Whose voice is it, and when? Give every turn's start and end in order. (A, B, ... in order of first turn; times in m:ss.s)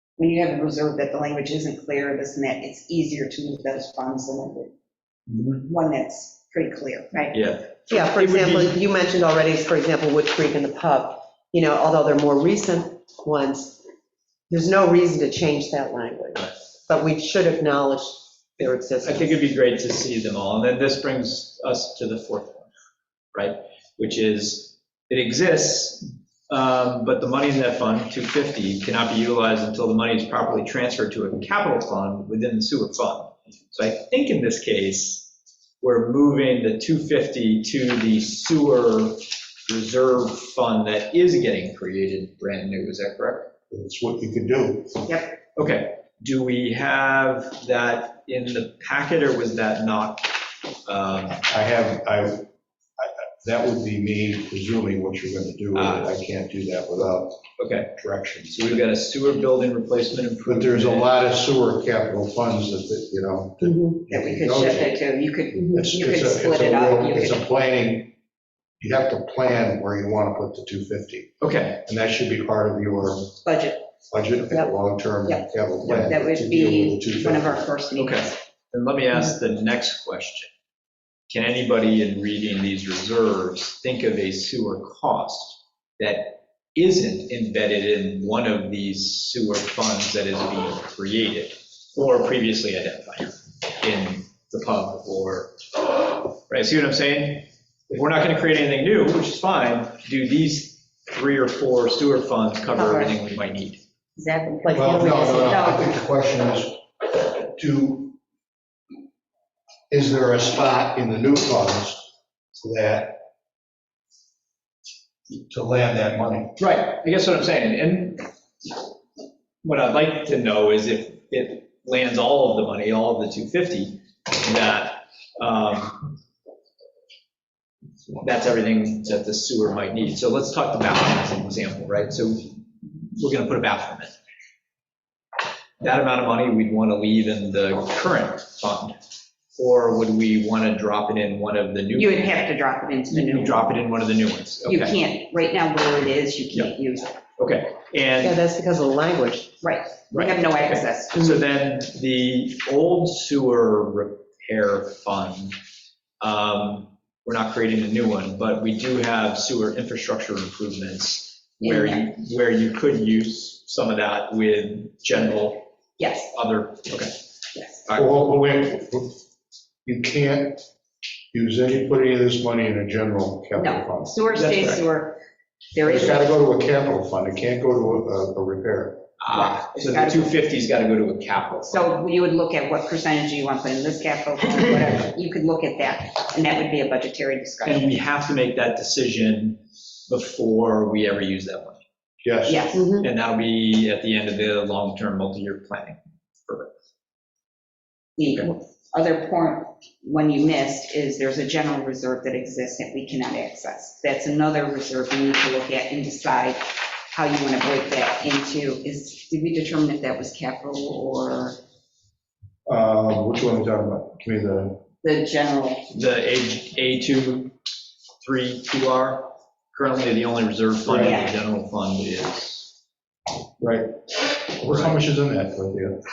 0:00.2-0:04.7 A
0:05.3-0:05.6 B
0:05.6-0:07.4 A
0:07.3-0:08.8 B
0:07.9-0:13.8 C
0:14.5-0:19.3 C
0:19.0-0:22.7 B
0:23.3-0:43.5 B
0:43.7-0:45.0 D
0:45.1-0:45.4 A
0:45.6-0:51.4 B
0:51.5-0:52.5 D
0:53.0-0:57.4 D
0:55.7-0:56.1 B
0:57.6-0:57.9 B
0:57.9-0:58.8 D
0:58.5-1:01.1 B
1:00.4-1:05.0 D
1:03.6-1:04.0 C
1:04.1-1:07.4 A
1:05.7-1:08.1 D
1:08.8-1:13.3 D
1:11.4-1:11.8 B
1:13.4-1:13.9 A
1:14.1-1:17.6 D
1:15.8-1:16.1 B
1:16.0-1:18.4 A
1:18.0-1:20.5 B
1:21.3-1:43.8 B
1:42.8-1:43.1 A
1:44.2-1:45.9 A
1:44.6-1:45.6 C
1:44.7-1:46.8 D
1:47.5-1:48.2 D
1:49.9-1:53.2 D
1:55.5-1:56.6 D
1:56.6-1:58.3 B
1:59.6-2:06.0 B
2:08.2-2:14.1 B
2:15.8-2:19.0 B
2:19.6-2:22.4 B
2:21.9-2:23.7 A
2:23.1-2:25.0 B
2:24.7-2:27.2 A
2:27.4-2:28.4 B
2:28.2-2:29.5 C
2:29.6-2:31.4 A
2:30.1-2:35.6 B
2:36.2-2:45.6 B
2:41.6-2:42.1 A
2:46.0-2:46.3 A
2:46.3-2:47.1 B
2:47.9-2:49.2 D
2:49.8-2:50.6 D
2:51.3-2:54.1 D
2:53.6-2:55.2 A
2:54.3-2:54.8 B
2:55.7-2:56.3 A
2:55.8-2:59.0 D
2:59.2-3:01.9 B
2:59.3-3:00.4 A
3:01.7-3:07.9 A
3:07.6-3:11.8 B
3:12.2-3:12.7 D
3:12.5-3:12.9 A
3:12.7-3:13.1 C
3:13.0-3:16.7 B
3:18.2-3:31.6 A
3:32.7-3:34.8 D
3:35.0-3:35.9 A
3:35.9-3:37.5 B
3:38.2-3:42.7 B
3:40.8-3:41.2 D
3:41.0-3:41.3 A
3:43.6-3:43.9 D
3:44.6-3:46.0 D
3:44.6-3:45.0 B